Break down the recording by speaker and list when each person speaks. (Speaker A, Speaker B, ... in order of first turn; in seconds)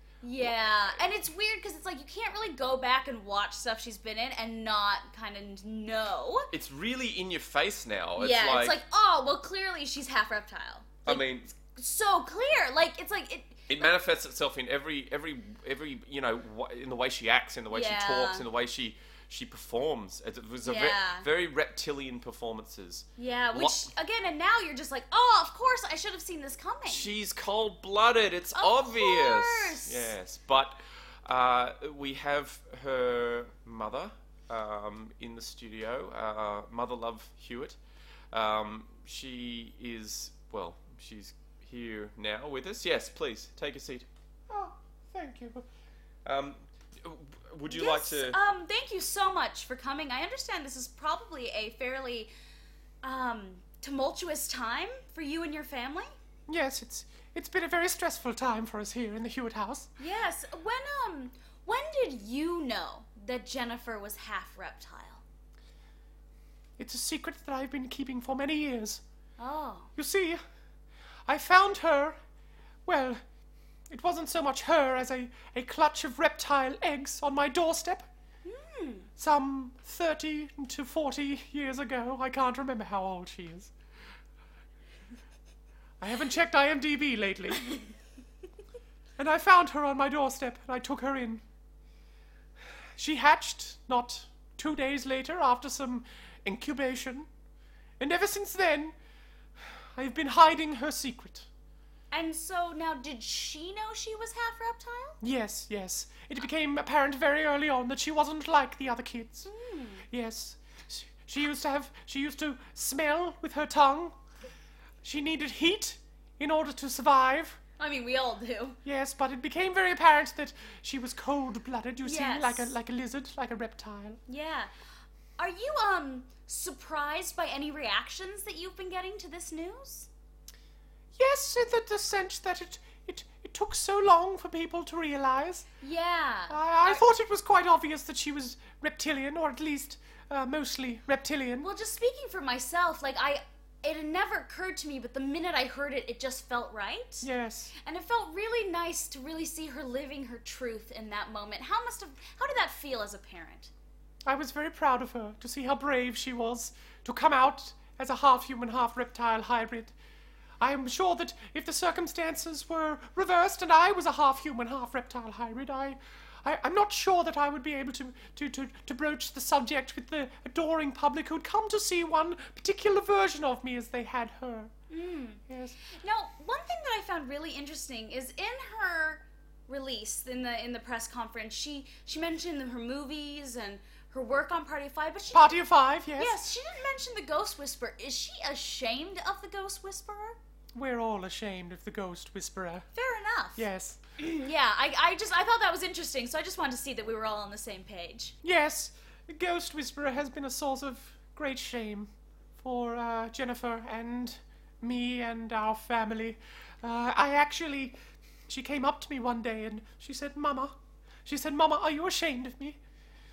Speaker A: 0.2-6.5, 8.2-13.9, 17.7-18.5, 20.6-21.3, 23.2-27.1, 28.6-30.1, 47.7-52.3, 53.0-56.1, 60.0-65.2, 69.4-69.9, 78.5-79.1, 102.1-105.2, 109.5-110.0, 117.8-118.8, 122.0-122.8, 124.3-124.7, 125.4-130.1, 135.8-137.0, 141.6-147.3, 147.8-153.7, 174.9-185.5, 186.2-190.4, 192.9-193.7, 194.2-198.3
Speaker B: 6.5-8.8, 11.1-11.5, 13.7-23.9, 26.9-37.8, 38.3-44.1, 46.2-48.4
Speaker C: 44.5-45.6, 56.5-59.9, 66.8-69.0, 70.0-70.4, 71.3-72.2, 72.9-73.2, 73.9-78.1, 79.2-83.7, 86.0-87.8, 89.2-91.4, 93.0-97.3, 98.0-99.0, 100.0-101.5, 105.2-109.5, 110.1-114.2, 115.0-117.6, 118.8-124.2, 131.2-135.7, 136.5-141.7, 147.2-147.7, 154.2-159.9, 160.6-174.7, 175.5-175.8, 185.3-186.4, 190.7-192.9, 193.6-194.0, 198.4-208.0, 208.5-212.8